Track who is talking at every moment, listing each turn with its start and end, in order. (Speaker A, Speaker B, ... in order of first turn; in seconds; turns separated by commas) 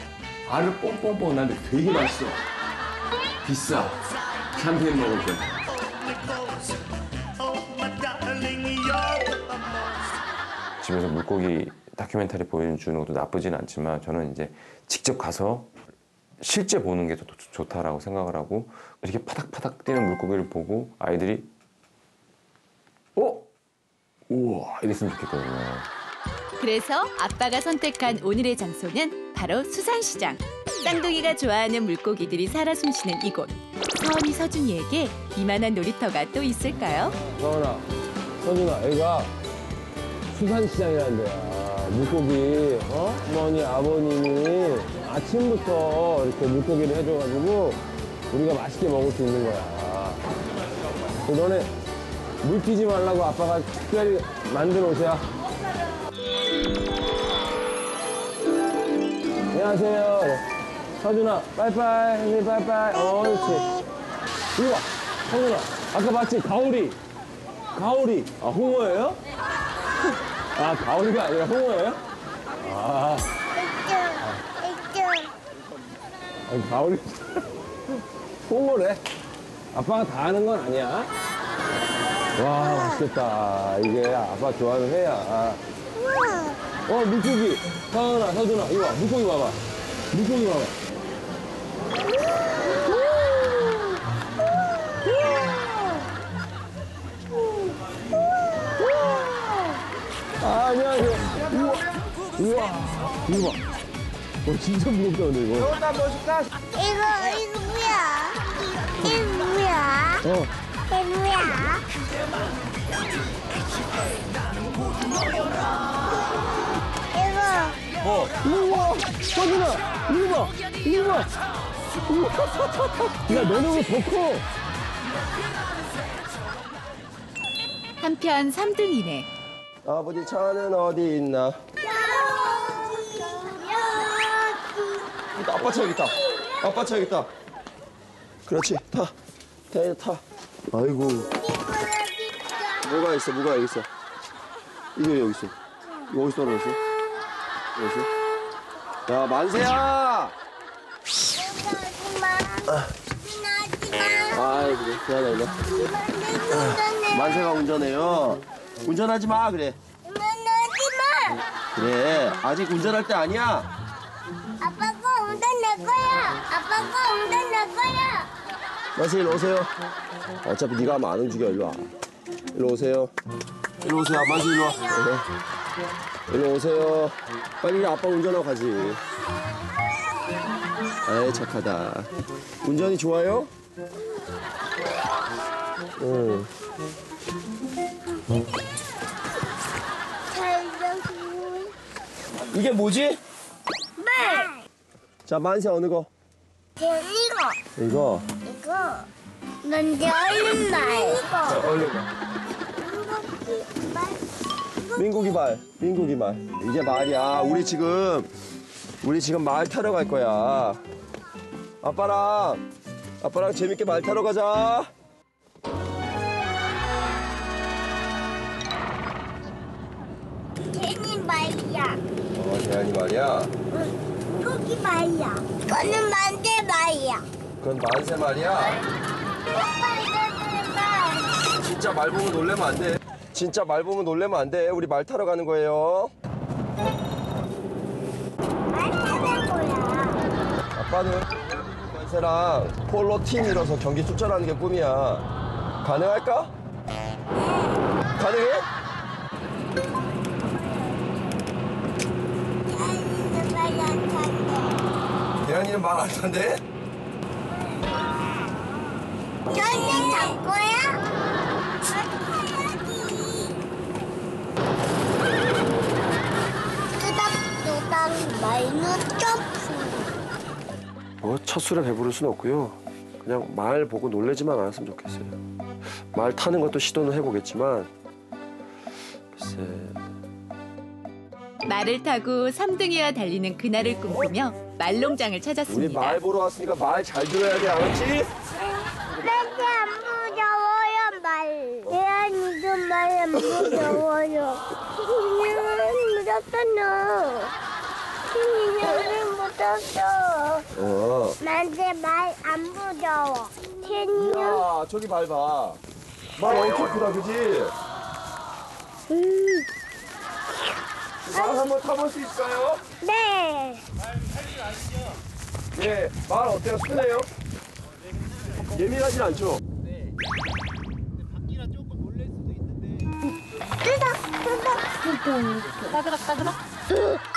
Speaker A: 0.5-2.4, Speaker A: 3.4-4.0, Speaker A: 4.5-5.6, Speaker A: 10.8-15.7, Speaker A: 16.4-21.5, Speaker A: 23.1-23.5, Speaker A: 24.3-25.9, Speaker B: 26.6-37.1, Speaker A: 37.4-37.9, Speaker A: 38.4-39.3, Speaker A: 40.3-47.8, Speaker A: 48.3-50.2, Speaker A: 51.2-51.7, Speaker A: 52.4-55.3, Speaker A: 59.5-60.4, Speaker A: 61.0-63.7, Speaker A: 64.5-67.0, Speaker A: 67.7-69.2, Speaker A: 70.5-72.0, Speaker A: 72.6-73.3, Speaker C: 73.5-75.3, Speaker A: 76.5-77.4, Speaker A: 78.5-79.0, Speaker A: 79.7-81.1, Speaker A: 82.3-85.6, Speaker C: 82.6-83.0, Speaker C: 86.0-86.5, Speaker A: 86.9-89.6, Speaker A: 90.1-90.7, Speaker C: 92.7-93.0, Speaker C: 95.0-95.5, Speaker C: 98.3-98.7, Speaker A: 100.4-101.8, Speaker A: 102.4-103.6, Speaker A: 104.4-105.8, Speaker C: 106.7-108.4, Speaker C: 109.0-110.2, Speaker A: 110.2-110.5, Speaker C: 110.9-111.8, Speaker C: 117.1-117.8, Speaker A: 118.0-121.3, Speaker A: 122.1-122.6, Speaker A: 123.2-124.4, Speaker B: 128.0-129.3, Speaker D: 129.8-131.6, Speaker C: 131.8-135.1, Speaker D: 135.3-137.3, Speaker C: 135.9-136.8, Speaker D: 138.5-139.1, Speaker D: 139.7-141.3, Speaker C: 141.3-142.7, Speaker D: 142.8-143.9, Speaker D: 144.9-145.5, Speaker D: 146.1-146.8, Speaker D: 147.8-148.1, Speaker D: 149.1-150.3, Speaker C: 151.3-152.7, Speaker C: 153.2-154.6, Speaker D: 154.3-155.6, Speaker C: 155.6-157.6, Speaker D: 157.1-159.8, Speaker C: 160.0-161.4, Speaker D: 161.7-163.7, Speaker C: 164.6-168.3, Speaker D: 168.9-169.7, Speaker D: 170.4-171.8, Speaker D: 172.5-173.1, Speaker D: 173.8-175.2, Speaker C: 174.3-175.1, Speaker D: 176.3-179.0, Speaker D: 181.1-182.1, Speaker D: 182.6-183.5, Speaker D: 186.0-186.5, Speaker C: 190.3-191.7, Speaker D: 192.5-193.2, Speaker C: 194.0-194.6, Speaker D: 195.2-196.1, Speaker C: 196.8-197.6, Speaker D: 197.8-198.2, Speaker C: 198.4-199.1, Speaker C: 199.6-201.6, Speaker D: 201.4-202.0, Speaker C: 202.8-204.2, Speaker C: 204.9-205.3, Speaker D: 204.9-208.3, Speaker D: 209.0-210.8, Speaker D: 211.8-212.6, Speaker D: 213.2-214.9, Speaker C: 220.7-222.0, Speaker D: 222.3-223.5, Speaker C: 223.7-227.2, Speaker D: 227.6-228.8, Speaker C: 229.5-231.3, Speaker D: 231.4-236.1, Speaker C: 238.7-240.2, Speaker D: 240.7-245.2, Speaker D: 245.8-246.5, Speaker D: 248.1-248.7, Speaker C: 252.7-254.7, Speaker D: 255.4-256.6, Speaker C: 259.5-261.0, Speaker C: 261.9-263.5, Speaker C: 266.9-270.1, Speaker D: 271.2-277.9, Speaker D: 279.3-280.0, Speaker B: 281.6-286.2, Speaker D: 285.7-288.3, Speaker C: 289.2-297.5, Speaker C: 298.3-300.6, Speaker D: 300.7-301.4, Speaker C: 301.4-304.6, Speaker D: 304.1-305.8, Speaker D: 306.4-307.7, Speaker C: 306.5-306.8, Speaker C: 309.1-309.6, Speaker D: 311.2-312.8, Speaker C: 311.3-311.6, Speaker C: 313.0-313.8, Speaker D: 315.7-317.3, Speaker D: 318.7-319.6, Speaker C: 323.9-325.7